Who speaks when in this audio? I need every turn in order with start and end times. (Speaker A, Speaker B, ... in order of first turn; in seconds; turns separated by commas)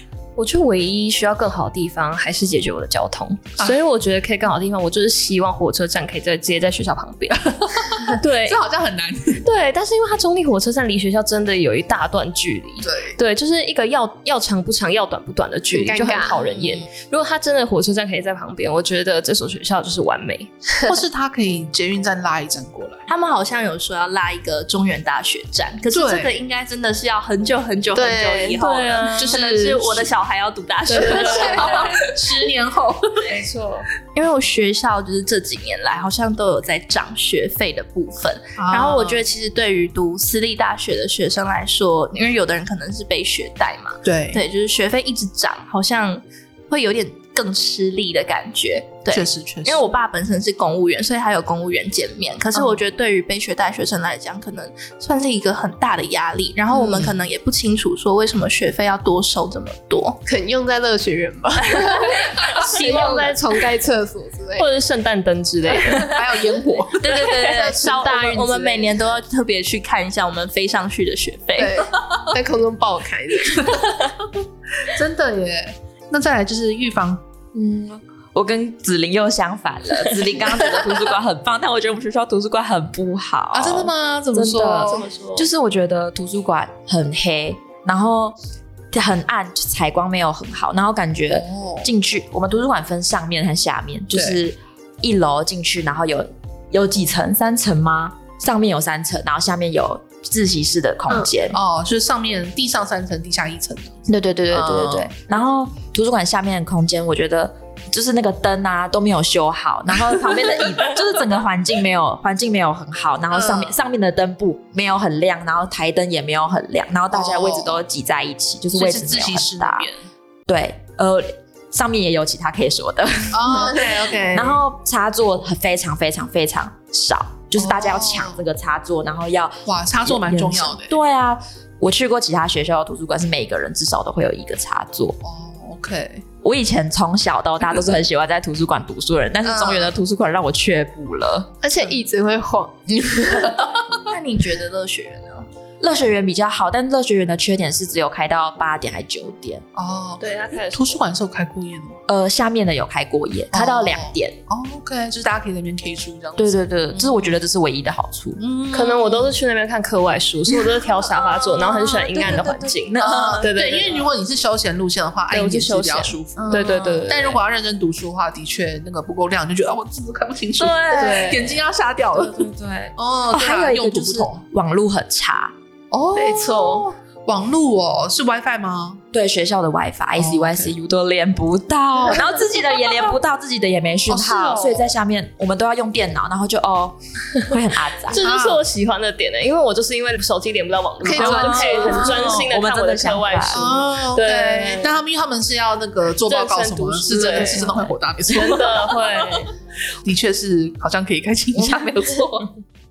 Speaker A: 0.4-8.6, Speaker B: 7.3-9.5, Speaker A: 9.4-20.5, Speaker B: 12.8-13.2, Speaker C: 15.7-16.4, Speaker B: 16.4-16.8, Speaker B: 20.9-23.1, Speaker D: 23.1-31.9, Speaker B: 25.9-26.4, Speaker C: 27.9-28.6, Speaker A: 28.6-29.4, Speaker B: 29.2-30.1, Speaker A: 30.9-32.0, Speaker C: 30.9-31.6, Speaker B: 31.1-33.3, Speaker A: 33.2-33.9, Speaker D: 34.1-60.2, Speaker B: 38.5-39.2, Speaker B: 44.0-44.4, Speaker B: 49.1-49.8, Speaker B: 56.7-57.2, Speaker C: 60.3-64.7, Speaker B: 62.6-63.1, Speaker A: 62.6-63.4, Speaker A: 64.6-66.2, Speaker C: 65.7-66.1, Speaker B: 66.1-67.2, Speaker D: 67.0-71.8, Speaker A: 67.1-68.7, Speaker C: 67.5-68.9, Speaker C: 71.6-73.9, Speaker B: 73.7-74.0, Speaker B: 74.8-77.2, Speaker E: 77.5-88.4, Speaker B: 83.5-85.1, Speaker A: 84.9-85.4, Speaker E: 88.9-101.6, Speaker B: 91.3-91.9, Speaker B: 94.1-94.4, Speaker B: 101.5-105.1, Speaker E: 104.1-119.9, Speaker B: 110.3-111.0, Speaker B: 113.3-113.7, Speaker B: 117.1-117.8, Speaker B: 118.7-120.0, Speaker E: 120.5-135.2, Speaker B: 123.3-124.6, Speaker B: 127.5-128.4, Speaker B: 129.7-131.0, Speaker B: 135.2-136.2, Speaker E: 136.4-141.5, Speaker B: 139.4-139.9, Speaker C: 141.6-142.8, Speaker D: 144.1-145.5, Speaker E: 145.8-149.6, Speaker B: 149.8-152.0, Speaker A: 150.2-151.0, Speaker E: 152.1-154.4, Speaker B: 153.5-157.4, Speaker E: 156.4-158.4, Speaker B: 158.4-159.3, Speaker A: 158.7-164.1, Speaker E: 161.5-163.5, Speaker B: 161.6-162.4, Speaker B: 163.0-172.4, Speaker A: 165.3-167.4, Speaker E: 166.5-167.1, Speaker A: 170.6-172.9, Speaker B: 173.0-174.4, Speaker E: 173.3-175.5, Speaker B: 175.9-179.0, Speaker C: 176.2-176.9, Speaker E: 179.1-188.2, Speaker B: 180.2-180.8, Speaker B: 184.1-184.9, Speaker A: 188.1-194.9, Speaker B: 188.1-188.6, Speaker C: 191.0-192.1, Speaker E: 191.1-193.7, Speaker B: 191.6-192.4, Speaker B: 193.5-199.5, Speaker A: 196.3-197.7, Speaker E: 197.3-197.6, Speaker A: 198.3-199.5, Speaker B: 200.0-202.5